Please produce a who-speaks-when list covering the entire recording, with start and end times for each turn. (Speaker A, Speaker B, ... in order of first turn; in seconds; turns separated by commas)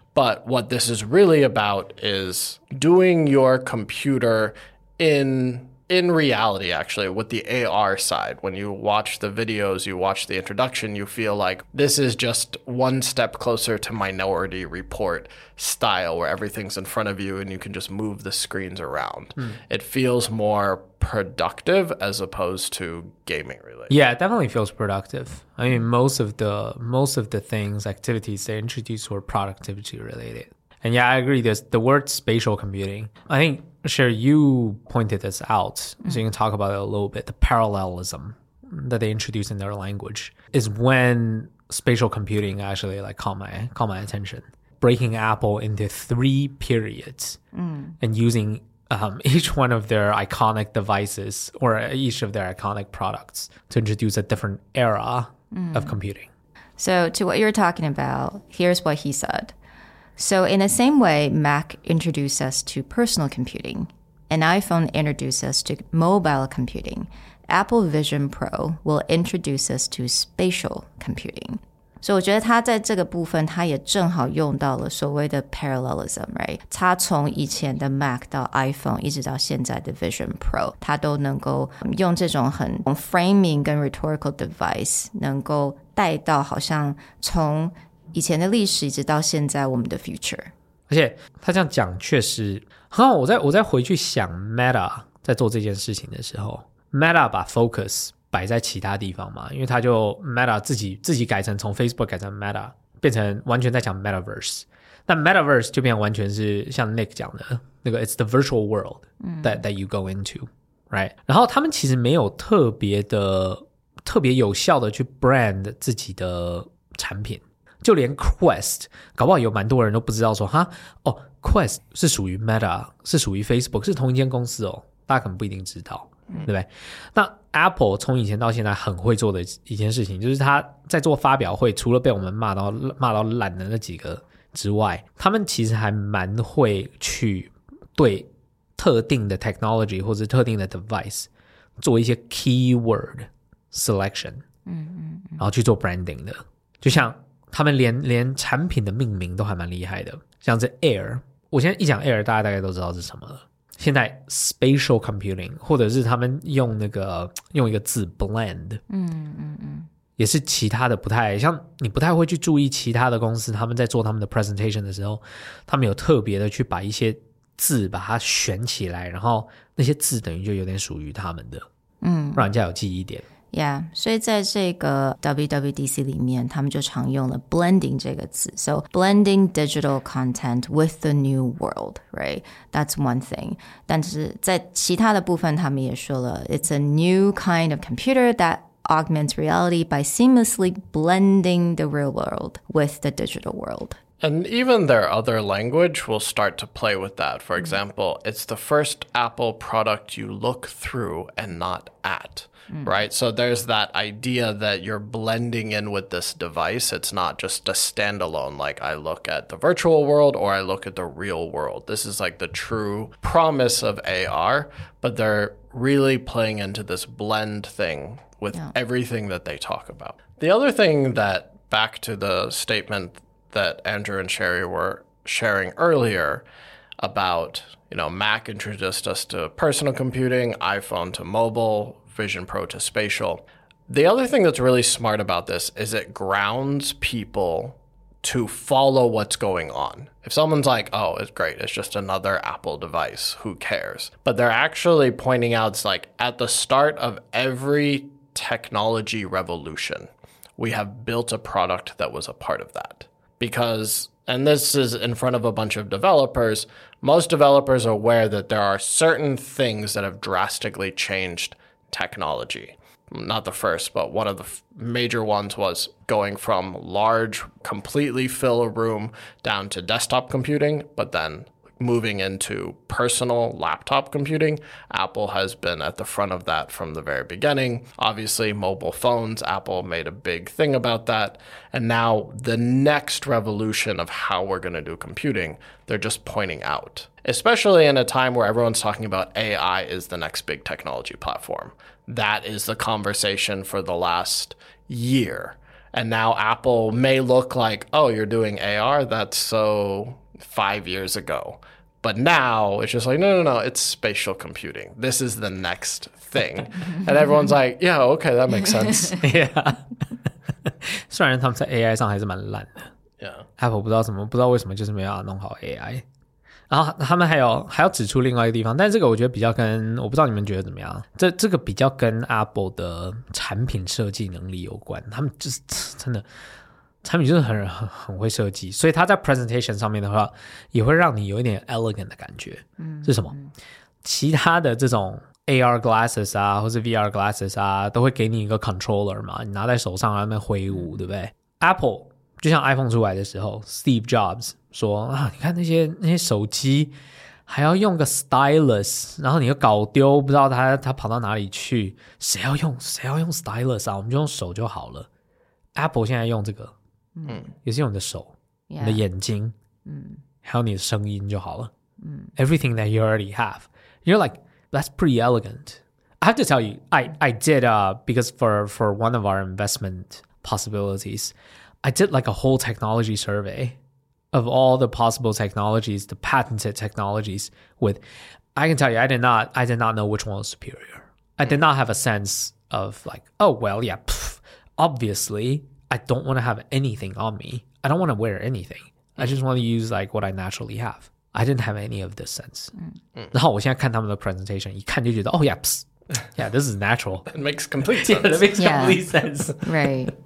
Speaker A: 0.1-23.9, Speaker B: 23.9-47.4, Speaker C: 47.5-48.0, Speaker B: 48.0-56.3, Speaker C: 55.5-56.0, Speaker C: 56.8-59.5, Speaker C: 60.2-90.5, Speaker B: 90.9-141.3, Speaker C: 109.2-109.6, Speaker B: 141.8-144.4, Speaker C: 144.7-145.4, Speaker B: 145.4-158.8, Speaker C: 158.9-159.9, Speaker B: 160.2-171.7, Speaker C: 172.0-172.5, Speaker B: 172.3-173.2, Speaker C: 173.5-194.0, Speaker A: 194.2-226.4, Speaker C: 202.7-203.0, Speaker A: 227.0-309.2, Speaker B: 309.2-309.9, Speaker B: 310.6-312.9, Speaker A: 313.2-313.4, Speaker B: 313.6-316.0, Speaker B: 316.7-326.3, Speaker B: 327.0-333.4, Speaker C: 332.8-333.5, Speaker B: 334.0-346.9, Speaker C: 340.7-341.1, Speaker B: 347.5-355.1, Speaker B: 355.8-356.7, Speaker C: 357.1-357.4, Speaker A: 357.2-357.5, Speaker B: 357.6-359.5, Speaker C: 358.7-359.0, Speaker C: 359.8-360.2, Speaker B: 360.4-361.7, Speaker C: 362.0-362.3, Speaker B: 362.4-373.8, Speaker B: 374.3-378.0, Speaker B: 378.6-392.7, Speaker B: 393.3-397.3, Speaker A: 397.3-399.0, Speaker B: 398.0-399.9, Speaker C: 398.6-399.0, Speaker C: 399.6-400.1